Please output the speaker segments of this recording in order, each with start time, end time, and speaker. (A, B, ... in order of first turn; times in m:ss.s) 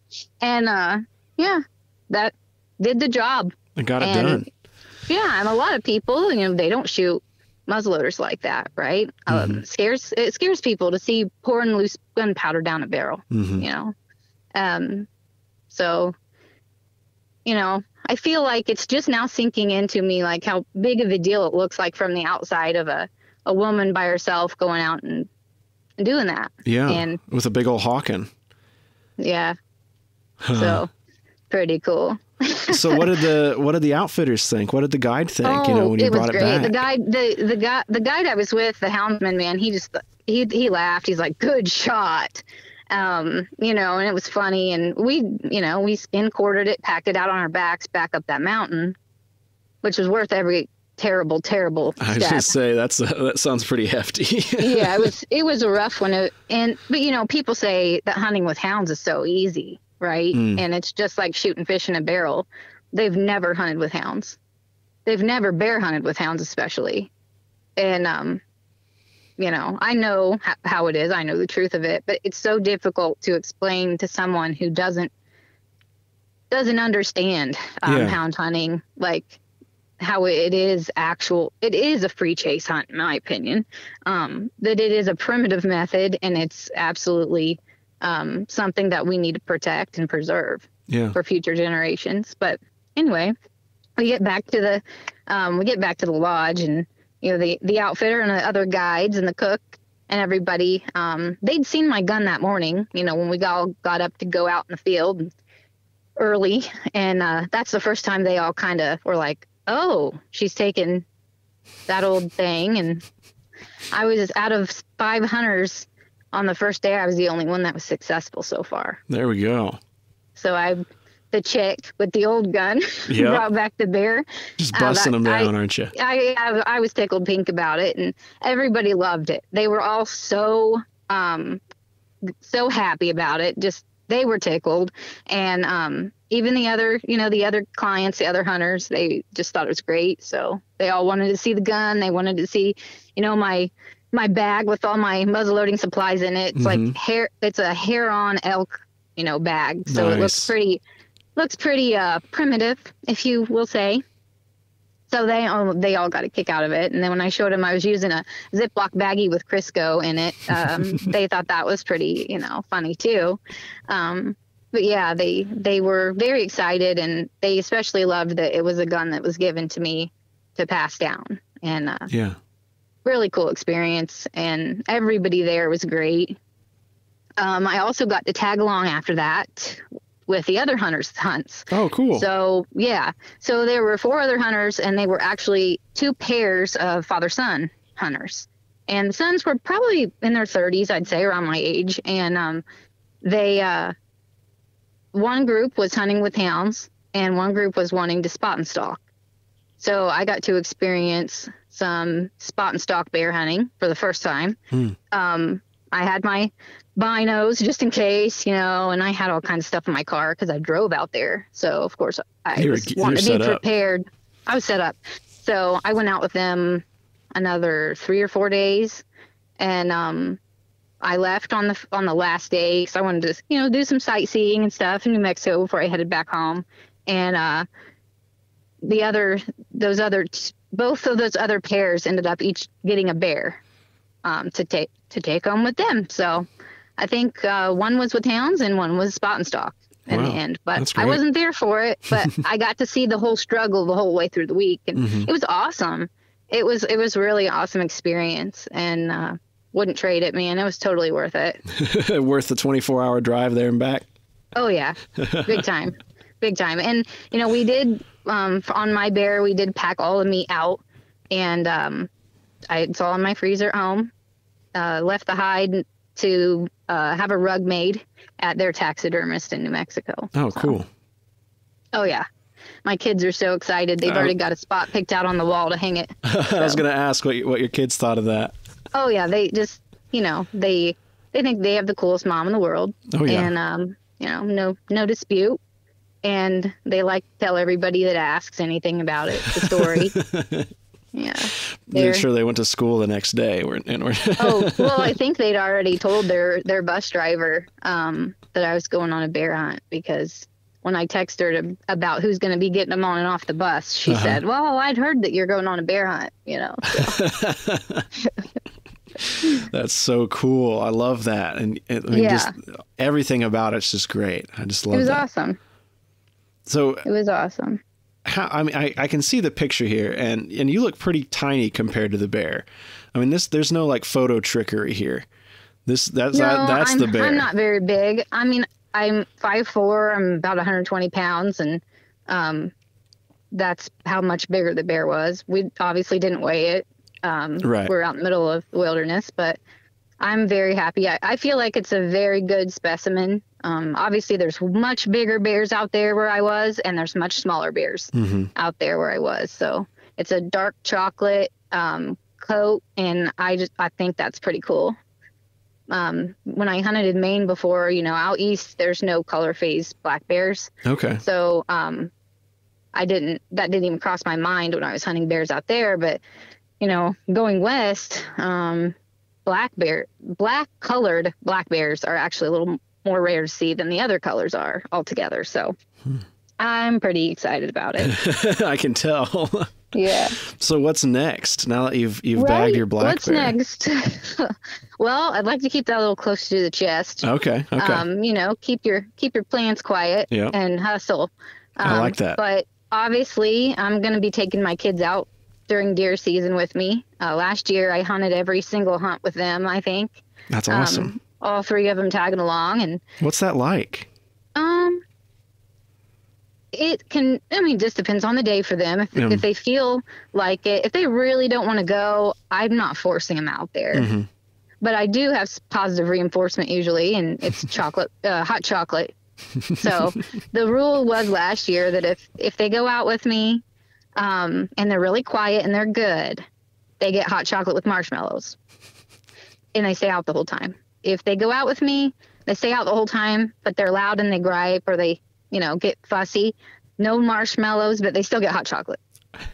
0:00.4-0:04.4 A
0:03.8-0:04.5 B
0:05.1-0:13.9 A
0:09.3-0:09.6 B
0:13.3-0:13.6 B
0:14.6-0:15.1 A
0:15.7-0:16.1 A
0:17.4-0:25.3 A
0:26.0-0:27.2 A
0:26.6-0:28.3 B
0:29.2-0:29.6 A
0:30.4-0:30.8 B
0:30.5-0:30.9 A
0:31.5-0:33.1 A
0:32.7-0:36.8 B
0:35.4-0:49.0 A
0:49.8-0:52.5 A
0:52.0-0:55.1 B
0:54.6-1:04.4 A
1:00.3-1:00.6 B
1:05.0-1:07.1 A
1:07.8-1:08.4 A
1:09.4-1:15.1 A
1:16.5-1:19.4 A
1:17.8-1:18.2 B
1:20.0-1:33.3 A
1:30.9-1:31.2 B
1:34.0-1:45.3 A
1:46.2-1:51.0 A
1:51.9-1:53.0 A
1:53.9-1:59.0 A
1:59.1-1:59.8 B
2:00.3-2:11.6 A
2:03.1-2:03.4 B
2:04.6-2:05.9 B
2:12.4-2:30.8 A
2:26.6-2:27.0 B
2:29.9-2:30.5 B
2:31.4-2:34.0 A
2:35.1-2:52.1 A
2:40.5-2:41.1 B
2:52.1-2:52.4 B
2:53.0-2:56.4 A
2:57.4-3:12.6 A
3:01.7-3:02.3 B
3:13.2-3:13.9 A
3:15.1-3:19.0 A
3:19.8-3:24.6 A
3:25.1-3:36.8 A
3:32.5-3:33.6 B
3:37.3-3:39.0 A
3:39.6-3:40.4 A
3:41.0-3:47.6 A
3:48.8-3:53.6 A
3:54.2-3:56.5 A
3:57.0-4:11.6 A
4:00.1-4:01.2 B
4:05.0-4:05.3 B
4:11.7-4:14.1 B
4:14.5-4:22.1 A
4:15.2-4:15.6 B
4:22.7-4:24.1 A
4:24.7-4:30.7 A
4:30.3-4:30.9 B
4:31.9-4:32.2 A
4:32.8-4:36.8 A
4:34.0-4:34.3 B
4:36.2-4:38.5 B
4:38.9-4:45.6 A
4:43.1-4:43.5 B
4:46.2-4:50.2 A
4:49.4-4:50.7 B
4:51.1-4:52.2 A
4:51.5-4:55.1 B
4:54.4-5:07.2 A
5:04.1-5:04.4 B
5:06.9-5:08.1 B
5:09.2-5:15.2 B
5:12.1-5:12.5 A
5:14.9-5:15.6 A
5:16.7-5:17.0 B
5:17.0-5:17.8 A
5:18.2-5:25.2 B
5:25.8-5:27.5 B
5:26.3-5:32.7 A
5:33.5-5:39.6 A
5:37.6-5:37.9 B
5:40.2-5:54.9 A
5:48.1-5:48.5 B
5:55.9-6:02.1 A
6:00.8-6:01.2 B
6:02.9-6:06.2 A
6:06.8-6:08.9 A
6:09.4-6:15.7 A
6:16.6-6:18.1 A
6:18.0-6:23.5 B
6:19.9-6:20.3 A
6:22.3-6:43.0 A
6:27.2-6:28.0 B
6:31.8-6:32.4 B
6:40.5-6:41.2 B
6:43.2-6:44.1 B
6:44.6-6:45.0 A
6:46.7-6:54.1 A
6:49.1-6:49.4 B
6:53.9-6:54.3 B
6:54.8-6:59.1 A
6:59.6-7:00.1 B
6:59.8-7:03.6 A
7:04.2-7:06.4 A
7:07.0-7:08.6 A
7:09.7-7:19.0 A